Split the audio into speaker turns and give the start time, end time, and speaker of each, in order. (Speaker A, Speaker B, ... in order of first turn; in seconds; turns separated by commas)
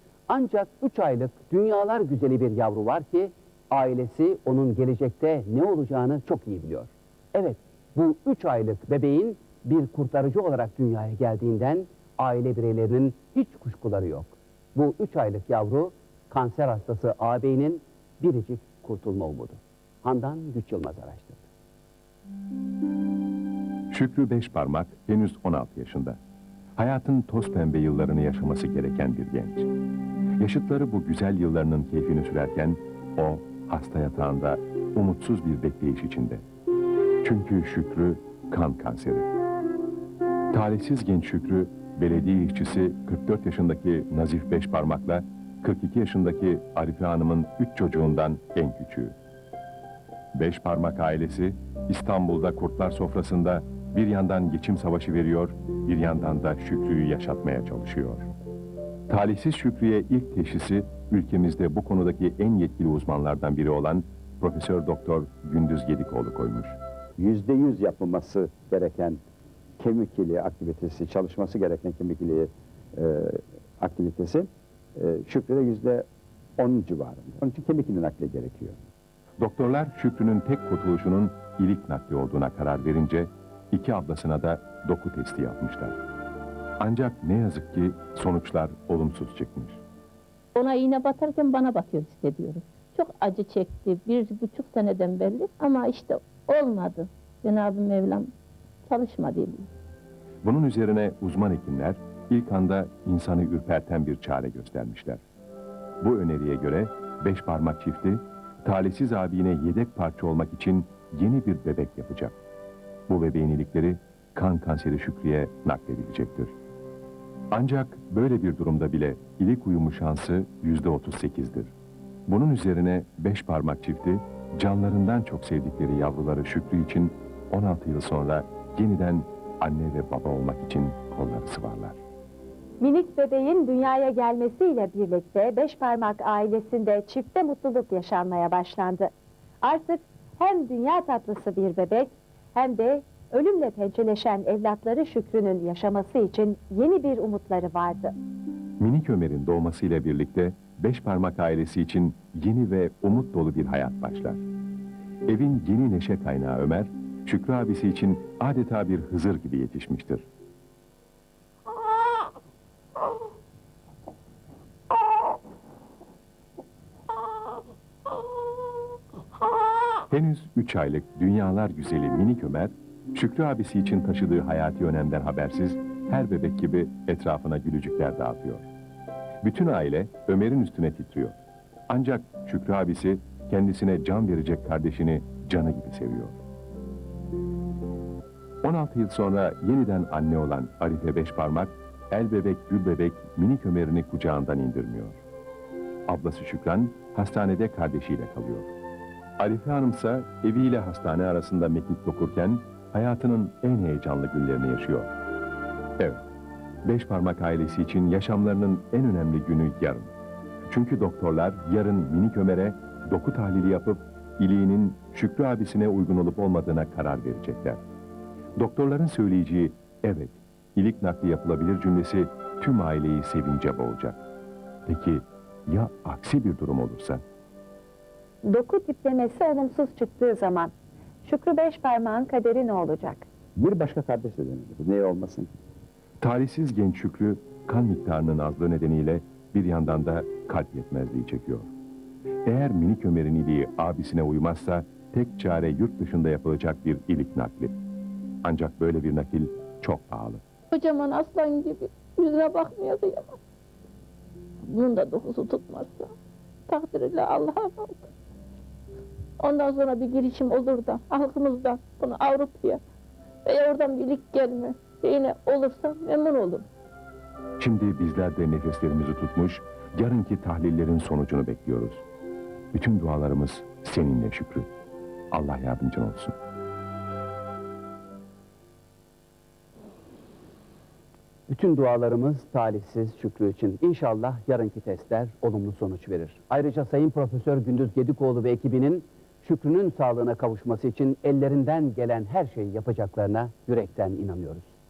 Speaker A: 0.3-21.4, Speaker B: 23.9-26.2, Speaker B: 26.8-29.7, Speaker B: 30.4-36.4, Speaker B: 37.2-39.3, Speaker B: 40.5-49.1, Speaker B: 50.3-58.3, Speaker B: 59.1-66.8, Speaker C: 67.2-69.2, Speaker C: 69.8-76.0, Speaker C: 76.6-78.8, Speaker B: 79.4-86.0, Speaker B: 86.8-89.8, Speaker D: 90.5-98.3, Speaker D: 98.8-99.7, Speaker B: 100.4-105.2, Speaker B: 106.0-112.3, Speaker B: 113.1-116.5, Speaker B: 117.5-121.7, Speaker B: 122.3-132.0, Speaker E: 132.8-148.1, Speaker B: 148.8-154.4, Speaker B: 155.2-160.2, Speaker B: 170.1-178.7, Speaker B: 179.4-181.3, Speaker B: 181.9-186.4, Speaker B: 188.6-195.2, Speaker B: 196.1-198.7, Speaker B: 199.4-205.1, Speaker B: 206.0-206.3, Speaker B: 206.8-210.1, Speaker B: 210.7-217.8, Speaker B: 218.6-224.2, Speaker B: 224.8-227.2, Speaker E: 228.4-230.7, Speaker E: 231.2-233.2, Speaker C: 233.6-235.5, Speaker B: 236.2-241.7, Speaker B: 242.4-247.8, Speaker B: 248.4-250.4, Speaker D: 250.7-253.4, Speaker D: 254.7-256.1, Speaker D: 256.7-258.1, Speaker D: 259.4-262.8, Speaker D: 263.4-266.7, Speaker B: 267.6-272.0, Speaker B: 272.7-274.7, Speaker B: 275.3-276.4, Speaker A: 281.5-294.7